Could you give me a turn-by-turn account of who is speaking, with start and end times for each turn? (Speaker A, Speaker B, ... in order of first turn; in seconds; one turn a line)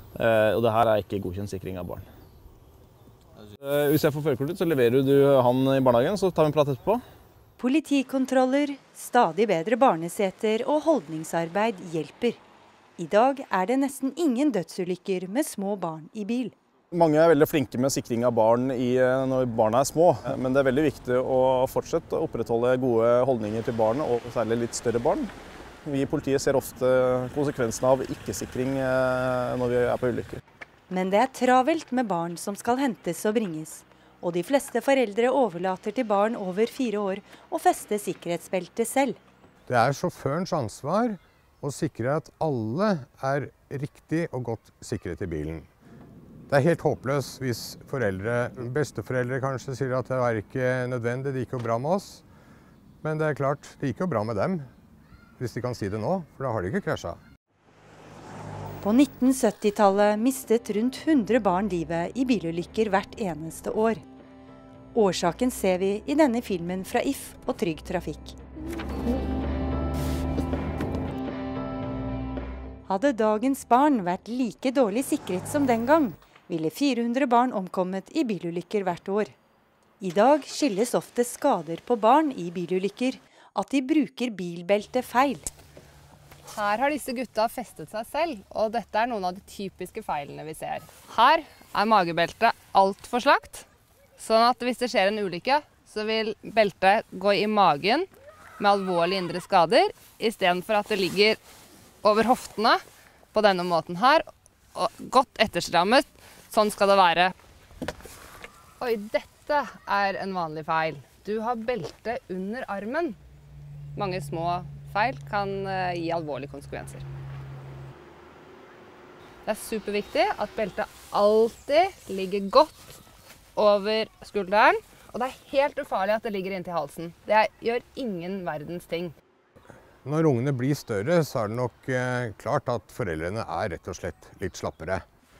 Speaker A: 0.1-2.0
Speaker A: 3.6-7.0
Speaker B: 7.6-12.4
Speaker B: 13.0-16.5
Speaker A: 16.9-25.3
Speaker A: 25.8-30.4
Speaker B: 30.9-39.2
Speaker C: 39.7-45.7
Speaker C: 46.5-52.2
Speaker C: 53.0-54.7
Speaker C: 55.4-57.2
Speaker B: 58.8-64.0
Speaker B: 64.9-68.4
Speaker B: 72.9-79.3
Speaker B: 80.0-85.5
Speaker D: 86.5-93.7
Speaker D: 94.2-98.1
Speaker D: 98.6-101.4
Speaker D: 102.0-102.8
Speaker D: 103.3-104.2
Speaker D: 104.7-107.3
Speaker D: 108.8-113.2
Speaker D: 113.9-117.0
Speaker D: 119.5-123.0
Speaker D: 123.5-129.1
Speaker C: 130.0-135.0